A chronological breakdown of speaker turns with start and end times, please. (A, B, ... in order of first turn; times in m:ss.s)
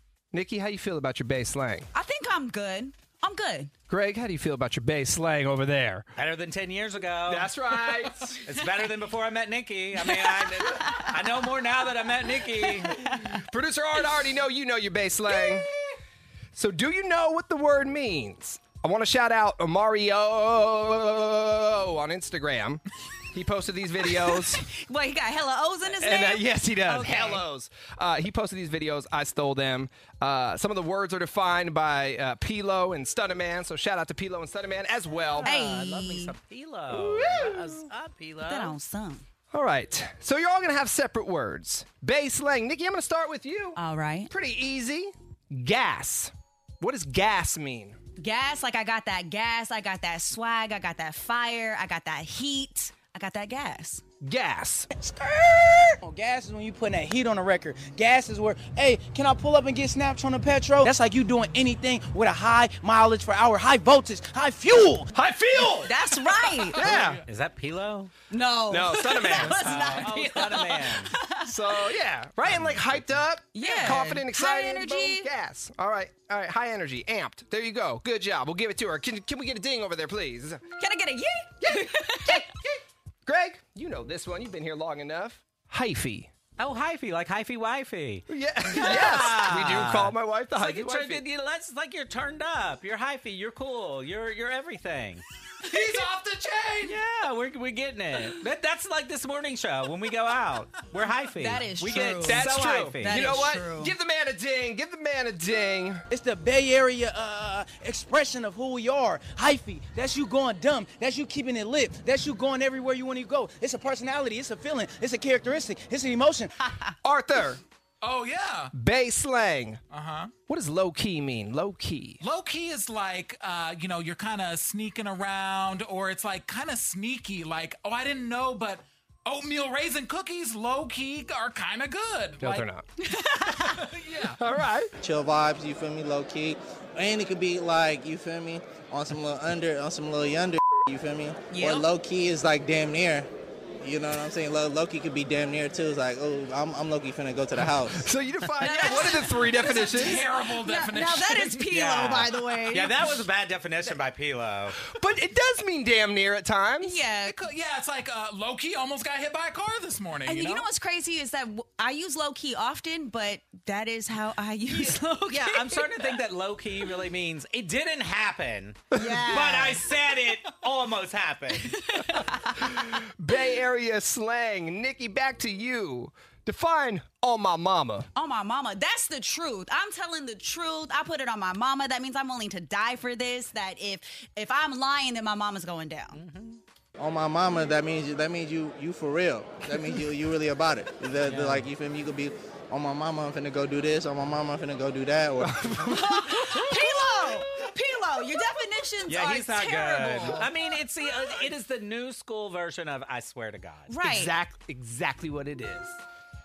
0:00.3-0:01.9 A
0:01.9-0:03.7 B
0:03.9-0:06.1 A
0:06.2-0:07.5 C
0:07.3-0:08.4 A
0:08.4-0:13.1 C
0:13.0-0:15.7 A
0:16.6-0:24.6 A
0:24.6-0:26.5 B
0:26.0-0:35.5 A
0:26.9-0:27.4 C
0:35.2-0:38.8 C
0:35.4-0:36.3 B
0:36.9-0:37.9 A
0:38.5-0:39.2 B
0:39.5-0:48.0 A
0:43.8-0:44.3 B
0:48.2-0:54.0 B
0:54.2-0:54.9 A
0:55.1-0:56.0 B
0:56.0-1:05.1 D
1:05.1-1:06.0 A
1:05.8-1:06.8 B
1:06.8-1:07.2 A
1:06.8-1:07.2 E
1:07.3-1:08.1 C
1:08.3-1:11.5 B
1:08.7-1:09.6 A
1:09.5-1:11.1 C
1:09.8-1:10.1 E
1:11.4-1:20.6 A
1:13.6-1:15.3 B
1:20.8-1:22.4 B
1:21.6-1:26.3 A
1:26.6-1:35.2 C
1:28.3-1:31.2 A
1:35.6-1:37.0 E
1:36.8-1:43.3 C
1:41.4-1:43.9 B
1:42.2-1:46.0 A
1:46.1-1:56.5 D
1:57.0-1:57.6 A
1:58.0-1:58.7 E
1:58.8-1:59.8 A
1:59.9-2:00.3 E
2:00.5-2:02.2 A
2:02.2-2:12.7 E
2:12.4-2:12.8 A
2:13.0-2:13.8 B
2:13.6-2:14.4 E
2:14.4-2:14.9 A
2:15.0-2:23.3 F
2:21.5-2:21.9 B
2:23.8-2:28.1 F
2:27.9-2:30.2 A
2:28.6-2:33.1 B
2:29.6-2:31.7 E
2:31.7-2:34.8 C
2:34.9-2:37.0 A
2:36.8-2:37.4 B
2:37.2-2:40.6 E
2:40.3-2:46.2 B
2:44.8-2:52.0 C
2:48.9-2:49.8 B
2:48.9-2:49.2 A
2:51.7-2:52.9 B
2:52.8-2:58.1 A
2:58.2-3:06.2 B
3:06.1-3:06.6 C
3:07.0-3:15.7 F
3:11.2-3:11.7 C
3:15.4-3:16.8 A
3:15.9-3:20.5 B
3:19.1-3:23.9 C
3:23.9-3:24.3 B
3:24.0-3:26.0 A